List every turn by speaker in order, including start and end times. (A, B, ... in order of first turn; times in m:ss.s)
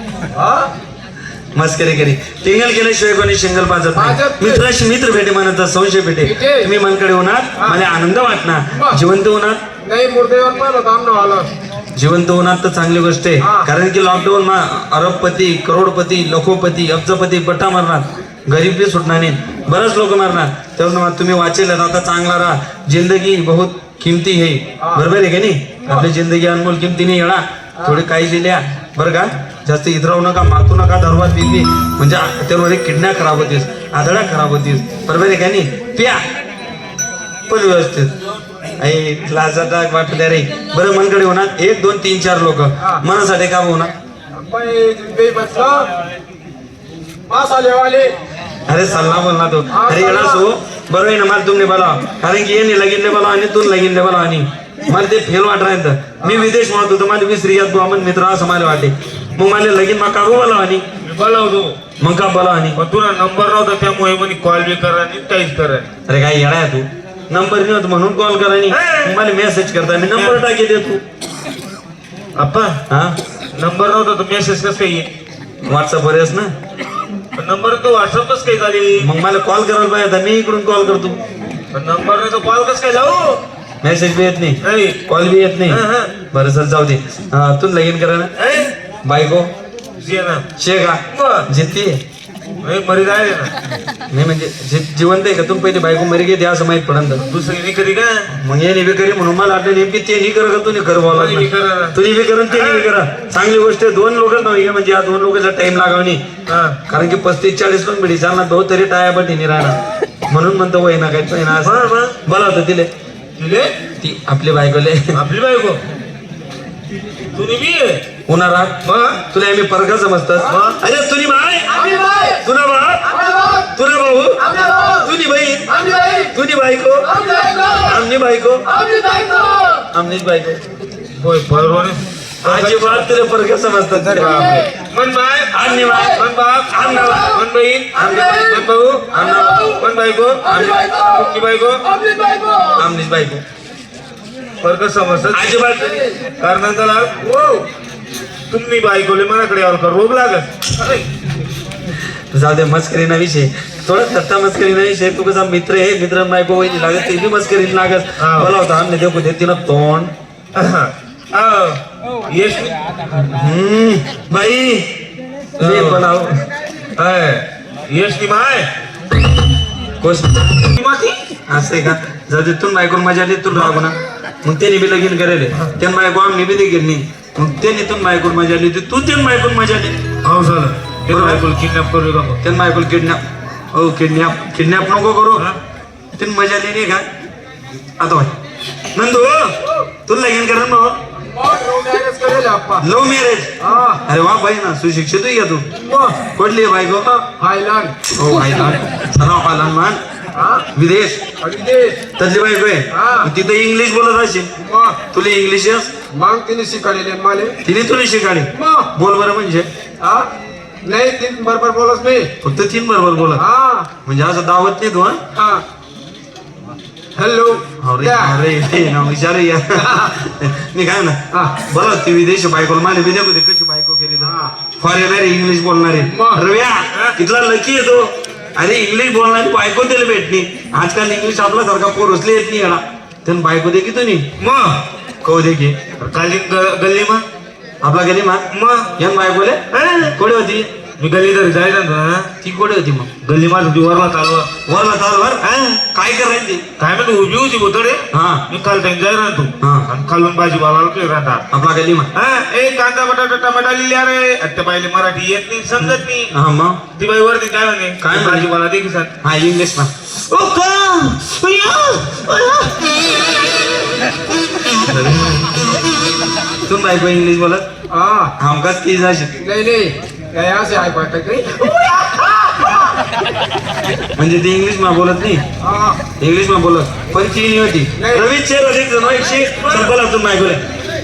0:00.3-0:00.7 A
0:01.6-0:09.6 B
0:03.9-0:04.7 A
0:06.2-0:06.7 A
0:08.7-0:09.0 A
0:09.8-0:11.5 A
0:12.0-0:36.2 B
0:13.4-0:13.7 A
0:24.8-0:25.0 A
0:37.5-0:38.1 B
0:38.8-0:43.9 B
0:44.4-0:45.9 A
0:47.3-0:48.2 A
0:48.7-1:00.8 B
0:49.7-0:50.4 A
0:56.2-0:56.5 A
1:01.0-1:01.8 C
1:02.0-1:02.8 B
1:02.8-1:05.9 C
1:06.1-1:11.0 B
1:08.7-1:09.2 C
1:12.4-1:12.8 C
1:12.9-1:13.2 B
1:13.5-1:15.1 C
1:15.6-1:16.5 B
1:17.4-1:19.1 C
1:19.0-1:21.2 B
1:21.7-1:23.4 C
1:23.8-1:28.3 B
1:24.6-1:25.0 C
1:25.7-1:26.1 C
1:28.4-1:28.7 C
1:29.0-1:29.5 B
1:30.0-1:30.4 C
1:30.6-1:32.0 B
1:31.1-1:31.5 C
1:32.6-1:33.5 C
1:34.1-1:37.2 B
1:37.3-1:38.3 C
1:38.3-1:46.2 B
1:41.1-1:42.0 C
1:42.5-1:42.9 C
1:46.5-1:46.8 C
1:46.9-1:49.8 B
1:50.3-1:52.9 B
1:51.6-1:52.2 C
1:53.4-1:53.7 C
1:54.0-1:55.2 B
1:55.1-1:55.8 C
1:57.3-1:58.0 C
1:58.3-1:58.8 B
1:58.8-1:59.2 C
1:59.3-2:08.7 B
2:00.5-2:00.8 C
2:01.7-2:02.4 A
2:03.1-2:03.7 A
2:04.4-2:05.1 A
2:05.7-2:06.3 A
2:07.1-2:08.0 A
2:08.7-2:09.9 A
2:09.9-2:10.6 B
2:11.2-2:13.1 C
2:12.4-2:14.6 B
2:14.0-2:14.7 A
2:14.1-2:21.9 C
2:15.5-2:16.2 B
2:18.0-2:19.8 B
2:18.1-2:18.6 A
2:19.3-2:19.8 A
2:20.4-2:20.9 B
2:20.4-2:21.3 A
2:21.8-2:22.8 A
2:22.8-2:23.4 B
2:24.6-2:25.6 C
2:25.3-2:26.0 B
2:25.8-2:26.1 A
2:26.4-2:27.2 C
2:27.2-2:27.7 A
2:28.5-2:31.1 C
2:32.3-2:40.1 B
2:38.2-2:38.5 C
2:40.6-2:42.8 C
2:43.2-2:44.9 B
2:45.6-2:46.0 C
2:45.6-2:46.4 B
2:47.0-2:48.7 C
2:50.0-2:50.6 B
2:50.7-2:51.3 C
2:51.5-3:00.0 B
2:53.5-2:53.8 C
3:00.2-3:02.4 C
3:01.1-3:01.4 B
3:02.4-3:03.2 B
3:03.7-3:05.5 B
3:06.2-3:07.0 B
3:08.0-3:08.3 B
3:08.9-3:09.6 B
3:10.1-3:11.0 B
3:11.2-3:12.9 A
3:12.8-3:13.5 B
3:13.6-3:14.0 A
3:14.1-3:15.7 B
3:15.8-3:16.2 A
3:16.2-3:17.1 B
3:17.0-3:18.7 A
3:18.1-3:20.0 B
3:20.4-3:20.7 A
3:20.8-3:21.2 B
3:21.4-3:22.0 A
3:22.2-3:24.5 B
3:22.9-3:23.3 A
3:24.6-3:25.0 A
3:25.1-3:25.9 B
3:26.1-3:27.6 A
3:27.6-3:29.7 B
3:28.5-3:28.9 A
3:30.0-3:30.3 A
3:30.8-3:32.3 A
3:32.4-3:33.4 B
3:33.4-3:33.9 A
3:34.0-3:35.2 B
3:35.3-3:35.6 A
3:37.2-3:38.4 A
3:37.8-3:54.3 B
3:39.8-3:40.1 A
3:41.3-3:41.6 A
3:44.2-3:44.5 A
3:46.0-3:46.4 A
3:54.4-3:54.8 C
3:55.2-3:55.8 B
3:56.0-3:57.2 C
3:57.8-3:58.4 B
3:58.5-3:58.9 C
3:59.0-3:59.6 B
3:59.7-4:00.2 C
4:00.1-4:00.7 B
4:01.0-4:02.3 C
4:02.4-4:03.1 B
4:03.2-4:04.5 C
4:04.7-4:06.6 B
4:05.4-4:05.8 C
4:06.8-4:11.4 C
4:08.1-4:08.4 B
4:09.6-4:09.9 B
4:11.5-4:12.1 B
4:12.1-4:16.3 C
4:16.3-4:16.8 B
4:17.0-4:19.1 C
4:18.0-4:18.5 B
4:19.2-4:19.9 B
4:20.3-4:22.9 C
4:26.7-4:27.7 B
4:27.9-4:28.3 A
4:28.4-4:29.3 B
4:29.4-4:33.0 A
4:34.2-4:35.4 B
4:35.6-4:36.0 A
4:36.2-4:40.6 B
4:38.0-4:38.3 A